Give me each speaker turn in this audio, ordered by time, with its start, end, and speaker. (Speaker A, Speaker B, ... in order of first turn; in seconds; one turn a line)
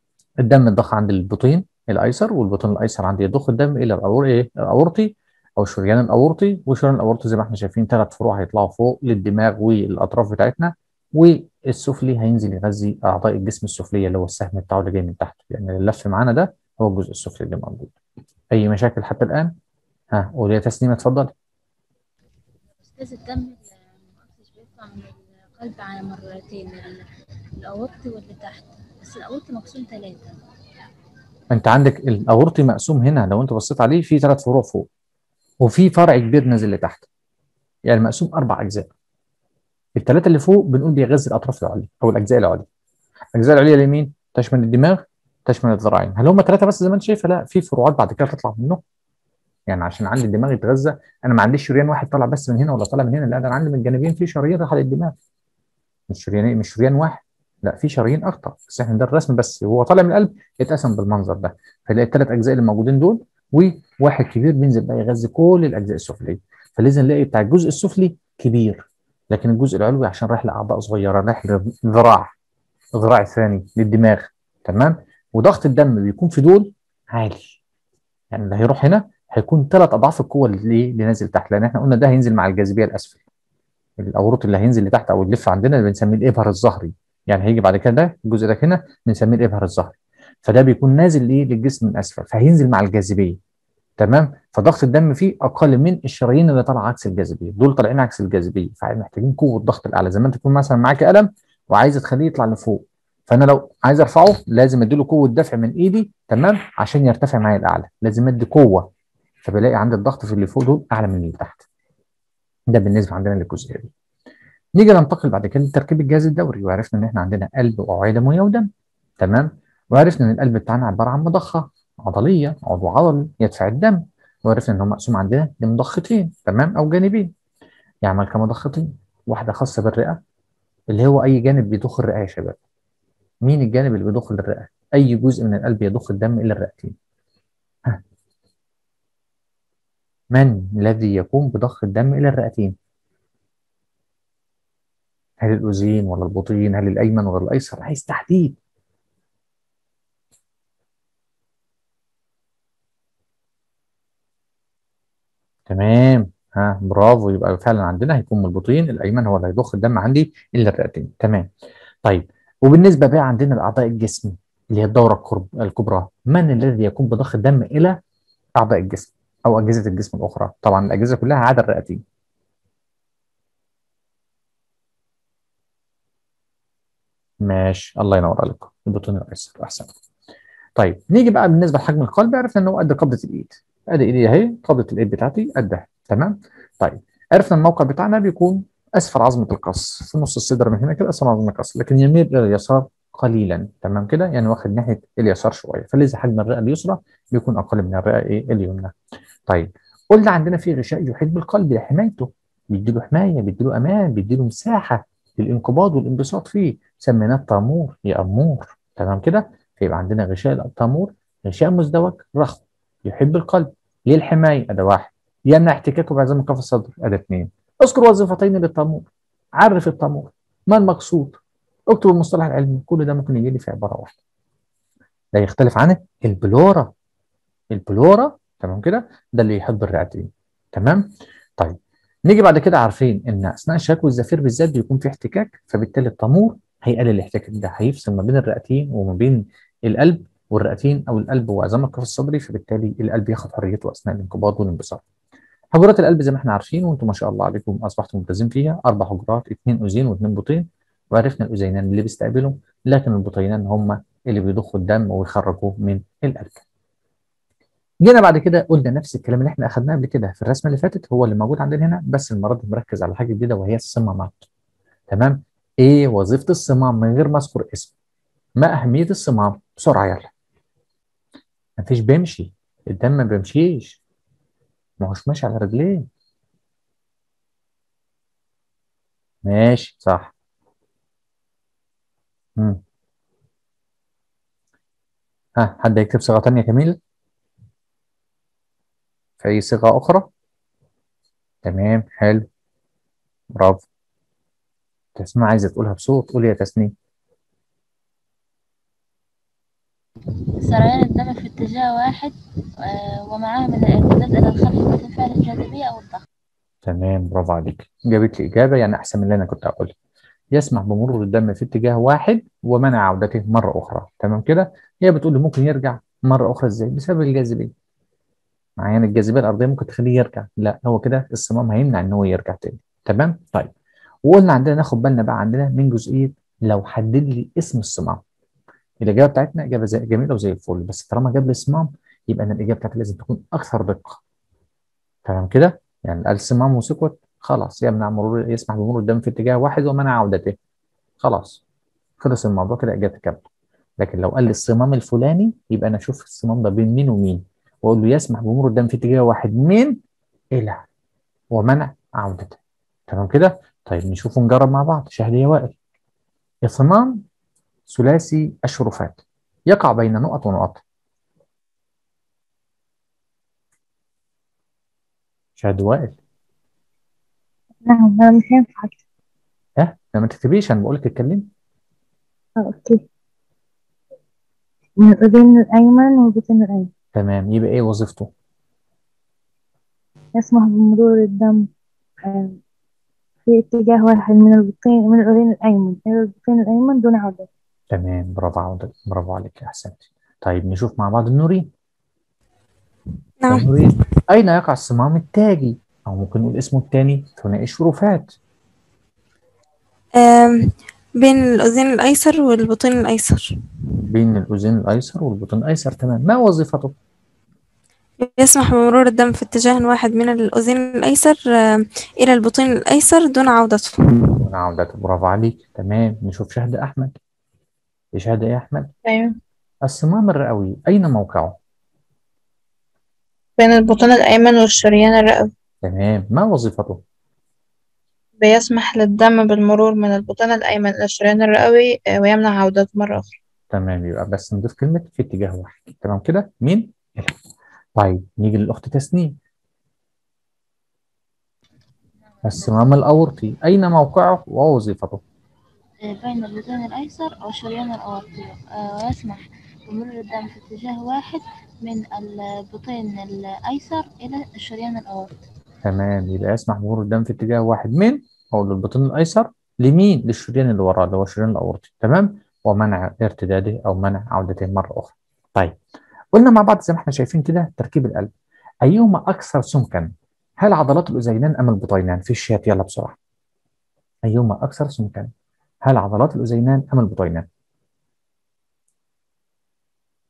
Speaker A: 0.4-17.9
Speaker A: 18.5-19.6
Speaker A: 20.1-21.3
Speaker B: 22.8-27.1
Speaker B: 27.6-30.3
Speaker A: 31.5-34.9
Speaker A: 35.6-37.1
Speaker A: 37.9-38.9
Speaker A: 40.0-42.7
Speaker A: 43.4-48.8
Speaker A: 49.7-55.1
Speaker A: 56.1-72.3
Speaker A: 73.0-77.6
Speaker A: 78.3-83.2
Speaker A: 84.0-93.4
Speaker A: 94.0-108.9
Speaker A: 109.4-111.7
Speaker A: 112.7-113.9
Speaker A: 114.8-118.7
Speaker A: 119.2-127.3
Speaker A: 128.0-130.2
Speaker A: 130.9-132.6
Speaker A: 133.4-137.0
Speaker A: 140.3-142.8
Speaker A: 145.4-148.6
Speaker A: 155.7-161.5
Speaker A: 162.1-168.0
Speaker A: 168.6-172.0
Speaker A: 177.4-179.9
Speaker A: 180.8-198.9
Speaker A: 199.5-224.2
Speaker A: 225.3-226.9
Speaker A: 227.7-245.0
Speaker A: 245.7-256.6
Speaker A: 258.0-264.5
Speaker A: 265.1-267.9
Speaker A: 268.6-270.3
Speaker A: 271.8-274.0
Speaker A: 275.0-276.1
Speaker A: 279.4-280.3
Speaker A: 285.6-287.0
Speaker A: 289.4-290.3
Speaker A: 291.6-292.5
Speaker A: 293.6-293.9
Speaker A: 295.2-296.9
Speaker B: 300.6-306.2
Speaker A: 306.9-309.9
Speaker A: 310.5-317.7
Speaker A: 318.8-323.7
Speaker A: 324.3-328.2
Speaker A: 329.0-334.2
Speaker A: 335.2-340.6
Speaker A: 341.2-341.6
Speaker A: 342.2-343.4
Speaker A: 344.0-350.0
Speaker A: 350.6-350.8
Speaker A: 351.5-355.8
Speaker A: 356.6-357.2
Speaker A: 357.9-360.8
Speaker A: 365.6-366.2
Speaker C: 367.8-369.0
Speaker A: 369.8-371.5
Speaker C: 372.6-373.0
Speaker C: 375.0-376.9
Speaker A: 377.1-378.3
Speaker C: 380.4-381.7
Speaker C: 382.2-382.6
Speaker C: 383.5-387.5
Speaker A: 387.9-391.7
Speaker D: 393.4-393.9
Speaker A: 393.5-398.4
Speaker D: 400.2-403.6
Speaker A: 404.1-406.9
Speaker D: 408.2-414.3
Speaker A: 414.4-417.1
Speaker A: 418.1-418.9
Speaker E: 419.1-419.4
Speaker A: 419.9-421.6
Speaker E: 423.6-425.5
Speaker A: 425.8-427.0
Speaker E: 428.4-433.3
Speaker A: 433.7-437.4
Speaker A: 438.0-439.4
Speaker B: 442.4-443.0
Speaker A: 442.4-445.2
Speaker B: 446.1-455.4
Speaker A: 455.9-465.8
Speaker A: 466.3-468.3
Speaker A: 468.8-473.2
Speaker A: 474.3-475.3
Speaker A: 475.9-477.5